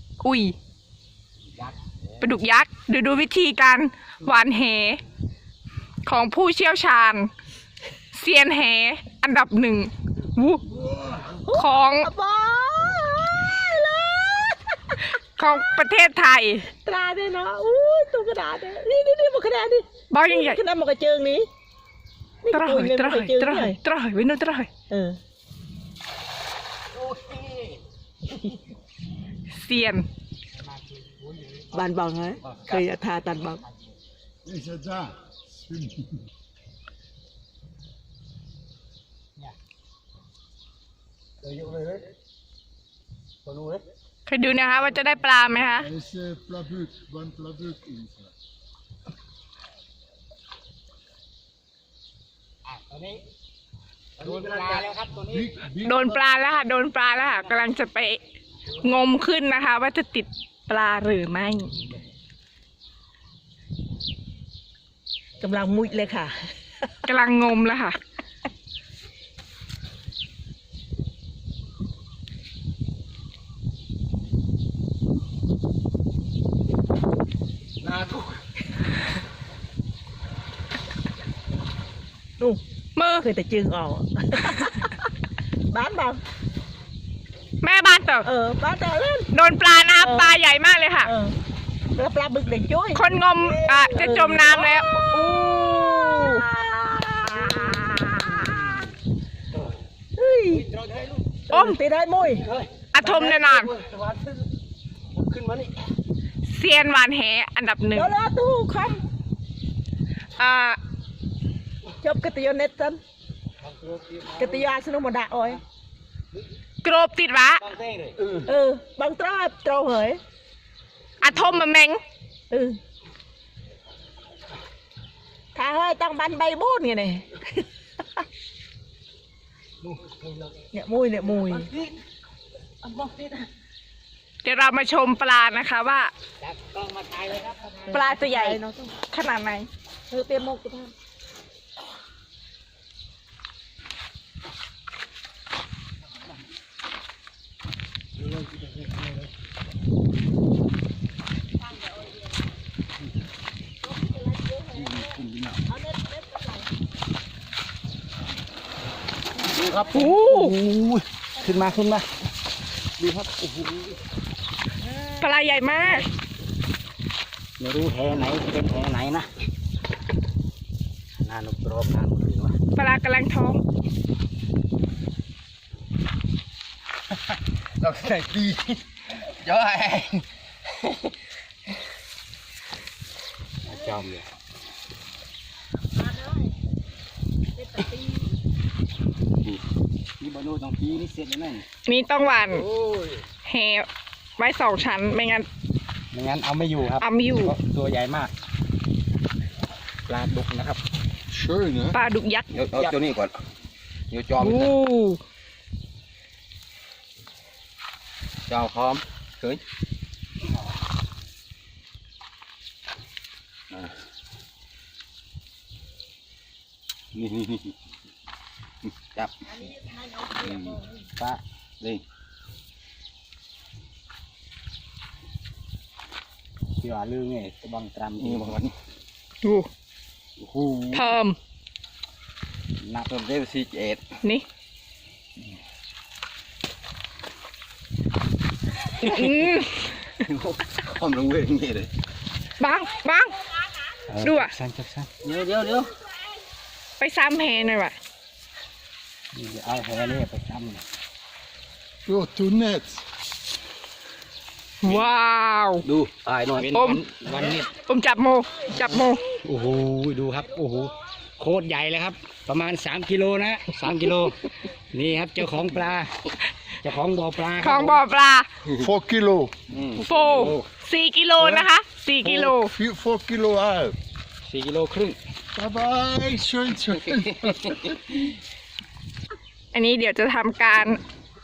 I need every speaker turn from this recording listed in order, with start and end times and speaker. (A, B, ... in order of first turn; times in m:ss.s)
0:00.2-0:00.6 A
0:01.5-0:02.2 B
0:02.2-0:05.0 A
0:06.0-0:07.3 A
0:08.1-0:10.6 A
0:11.2-0:15.1 C
0:11.6-0:12.1 A
0:15.2-0:16.7 A
0:16.7-0:21.5 C
0:20.1-0:20.6 A
0:22.4-0:23.8 C
0:22.5-0:24.7 A
0:24.9-0:25.2 C
0:26.9-0:27.8 B
0:29.5-0:30.1 A
0:30.6-0:31.8 B
0:31.7-0:33.6 C
0:32.4-0:32.9 B
0:34.4-0:36.2 D
0:41.4-0:42.0 B
0:43.5-0:43.8 B
0:44.3-0:45.9 A
0:45.8-0:48.3 D
0:52.6-0:53.2 B
0:54.2-0:55.5 B
0:54.2-0:54.9 E
0:55.3-0:56.2 D
0:55.8-0:58.2 A
0:58.8-1:01.7 A
1:05.4-1:06.4 C
1:07.0-1:08.0 A
1:17.9-1:18.2 B
1:23.0-1:23.3 A
1:23.2-1:25.1 C
1:25.7-1:26.2 C
1:27.6-1:28.3 A
1:28.2-1:29.3 C
1:29.3-1:31.1 A
1:30.0-1:30.4 C
1:31.0-1:31.3 C
1:32.0-1:38.8 C
1:33.0-1:36.4 A
1:40.2-1:40.7 C
1:40.7-1:41.2 B
1:41.5-1:42.5 C
1:41.5-1:41.8 A
1:42.5-1:44.3 B
1:42.9-1:43.7 A
1:45.2-1:45.7 B
1:46.5-1:48.1 A
1:47.9-1:49.0 C
1:50.4-1:50.8 A
1:52.0-1:53.0 C
1:53.6-1:54.6 B
1:54.4-1:55.6 C
1:56.8-1:57.6 A
1:57.6-1:58.4 B
1:58.4-2:00.2 C
2:01.2-2:02.0 A
2:02.5-2:02.8 C
2:05.5-2:07.6 C
2:09.8-2:10.5 B
2:10.7-2:11.7 C
2:11.5-2:11.9 B
2:12.8-2:13.4 B
2:14.4-2:16.1 A
2:16.4-2:17.9 B
2:17.8-2:19.0 C
2:17.9-2:19.7 A
2:20.1-2:20.9 C
2:31.7-2:32.3 C
2:33.8-2:35.2 C
2:34.8-2:35.6 B
2:35.7-2:36.7 C
2:39.4-2:42.1 B
2:39.9-2:40.5 A
2:43.0-2:43.9 B
2:45.2-2:46.1 A
2:47.6-2:49.3 B
2:51.2-2:52.6 B
2:52.8-2:53.6 A
2:57.8-3:00.1 B
3:03.7-3:04.2 B
3:03.7-3:04.0 C
3:06.0-3:06.6 C
3:07.6-3:08.3 C
3:10.2-3:11.7 B
3:11.9-3:12.7 A
3:13.4-3:13.9 A
3:14.4-3:15.5 A
3:16.1-3:18.3 B
3:17.0-3:17.6 A
3:20.1-3:20.8 B
3:21.3-3:22.0 D
3:21.9-3:22.6 A
3:22.5-3:23.4 E
3:22.7-3:23.0 B
3:24.1-3:24.8 E
3:24.4-3:25.2 A
3:28.5-3:29.6 E
3:37.2-3:37.6 E
3:39.6-3:41.0 C
3:40.4-3:40.8 E
3:46.8-3:48.6 B
3:48.2-3:48.7 E
3:49.4-3:49.7 A
3:50.4-3:51.1 E
3:50.9-3:51.4 A
3:52.8-3:54.0 E
3:59.0-3:59.3 B
3:59.0-4:00.0 A
4:00.3-4:01.9 E
4:02.6-4:03.4 A
4:04.1-4:05.9 B
4:04.2-4:04.5 A
4:07.0-4:08.0 A
4:09.3-4:10.8 B
4:12.1-4:13.0 D
4:14.8-4:15.9 A
4:15.9-4:16.8 E
4:16.2-4:17.8 B
4:16.7-4:17.1 A
4:17.7-4:19.3 A
4:19.4-4:28.0 B
4:27.6-4:28.5 A
4:28.8-4:29.5 D
4:29.7-4:30.7 B
4:30.0-4:32.7 A
4:31.4-4:31.7 D
4:32.2-4:34.0 D
4:34.4-4:35.2 B
4:35.6-4:38.0 D
4:39.7-4:41.0 A